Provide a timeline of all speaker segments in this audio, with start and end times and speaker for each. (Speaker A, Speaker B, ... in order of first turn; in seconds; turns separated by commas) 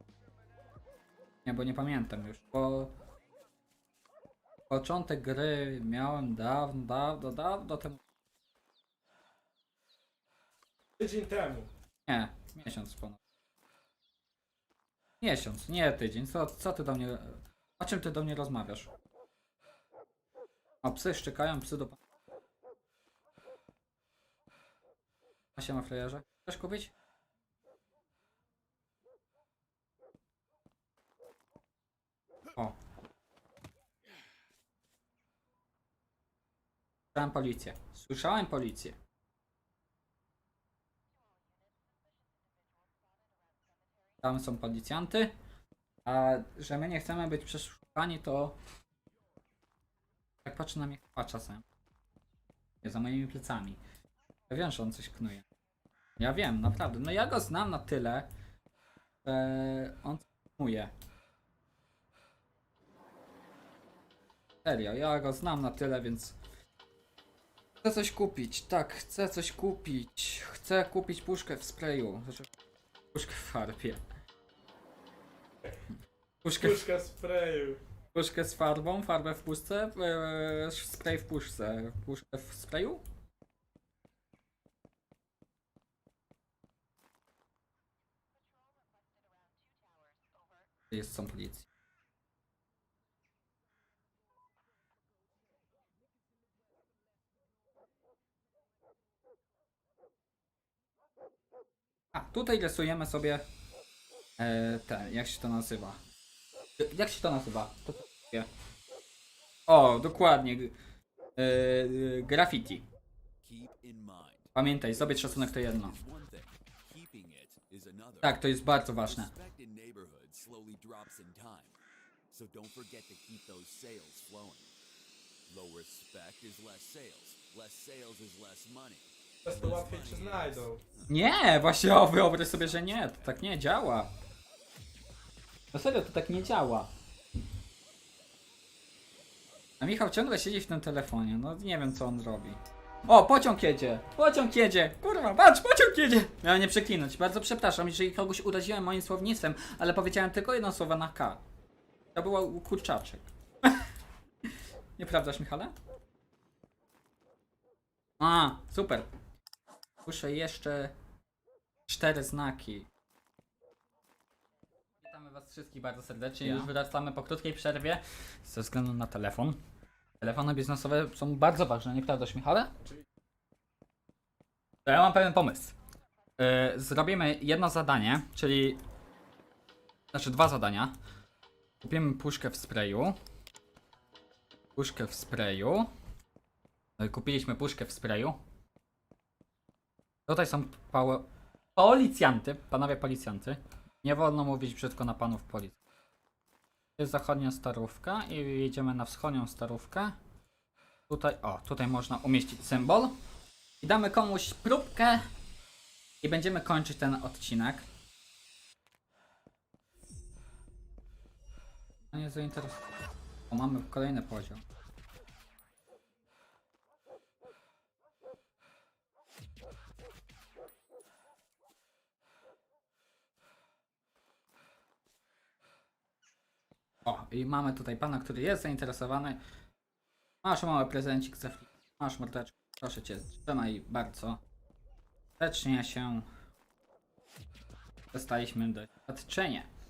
Speaker A: 1.4-2.9, Speaker A: 4.7-8.0, Speaker B: 11.0-11.7, Speaker A: 12.1-13.2, Speaker A: 15.2-18.9, Speaker A: 20.8-22.0, Speaker A: 25.6-26.9, Speaker A: 37.1-39.0, Speaker A: 44.2-45.3, Speaker A: 46.0-48.5, Speaker A: 50.4-51.6, Speaker A: 52.8-53.8, Speaker A: 54.5-55.4, Speaker A: 56.2-58.3, Speaker A: 59.2-60.9, Speaker A: 64.6-66.4, Speaker A: 67.8-72.5, Speaker A: 73.1-74.0, Speaker A: 76.4-76.8, Speaker B: 76.6-77.8, Speaker A: 78.1-83.0, Speaker A: 90.9-91.7, Speaker A: 102.1-103.4, Speaker A: 104.4-106.0, Speaker A: 106.8-108.5, Speaker A: 109.7-110.7, Speaker A: 111.4-112.9, Speaker C: 113.4-118.4, Speaker A: 114.5-116.0, Speaker A: 118.2-119.3, Speaker C: 119.0-121.8, Speaker C: 122.3-124.7, Speaker C: 125.5-131.1, Speaker B: 129.4-130.8, Speaker A: 131.1-134.1, Speaker C: 132.2-133.3, Speaker A: 135.7-136.9, Speaker A: 139.8-151.4, Speaker A: 152.1-153.9, Speaker A: 155.0-155.7, Speaker A: 158.2-159.1, Speaker A: 160.0-160.9, Speaker A: 161.9-162.9, Speaker A: 165.0-169.6, Speaker A: 170.2-172.7, Speaker B: 172.8-173.0, Speaker A: 174.8-175.7, Speaker A: 176.4-178.8, Speaker A: 180.1-180.9, Speaker A: 181.8-183.2, Speaker A: 184.8-185.9, Speaker A: 187.0-188.4, Speaker A: 190.3-195.8, Speaker A: 197.0-200.2, Speaker A: 201.1-203.2, Speaker A: 203.8-205.2, Speaker A: 206.2-207.8, Speaker A: 212.1-212.9, Speaker A: 213.5-214.6, Speaker A: 227.0-229.4, Speaker A: 230.4-234.4, Speaker A: 235.4-236.3, Speaker A: 238.1-239.7